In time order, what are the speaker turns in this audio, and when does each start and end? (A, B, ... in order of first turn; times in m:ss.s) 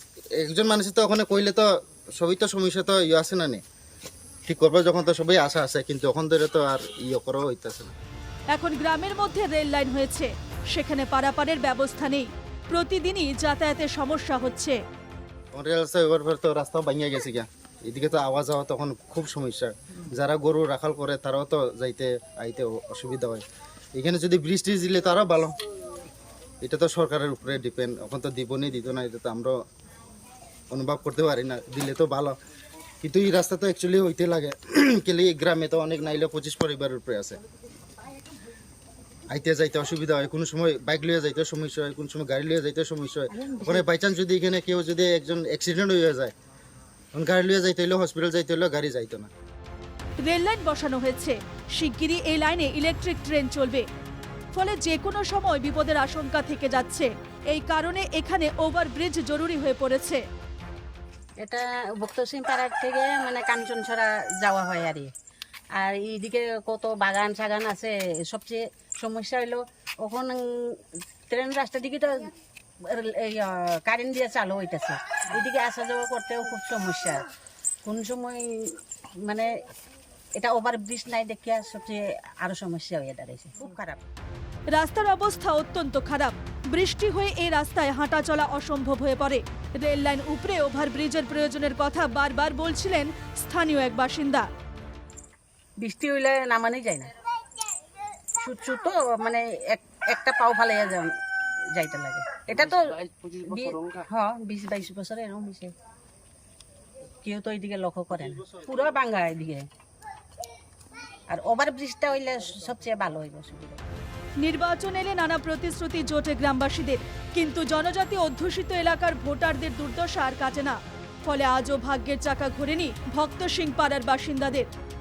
0:00.4-0:03.6 A
0:04.5-0:07.9 A
0:08.5-0:14.8 B
0:15.5-0:23.4 A
0:24.0-0:25.6 A
0:26.6-0:29.6 A
0:30.7-0:32.4 A
0:33.0-0:37.4 A
0:39.3-0:46.3 A
0:47.1-0:49.3 A
0:50.2-0:53.9 B
0:54.5-1:00.2 B
1:01.4-1:05.1 C
1:05.8-1:12.3 C
1:12.9-1:17.2 C
1:17.8-1:18.7 C
1:19.3-1:19.5 C
1:20.4-1:24.0 C
1:24.7-1:34.5 B
1:35.8-1:37.1 C
1:38.4-1:41.1 C
1:41.7-1:45.7 C
1:47.2-1:49.7 C
1:51.3-1:53.8 C
1:54.4-2:04.7 B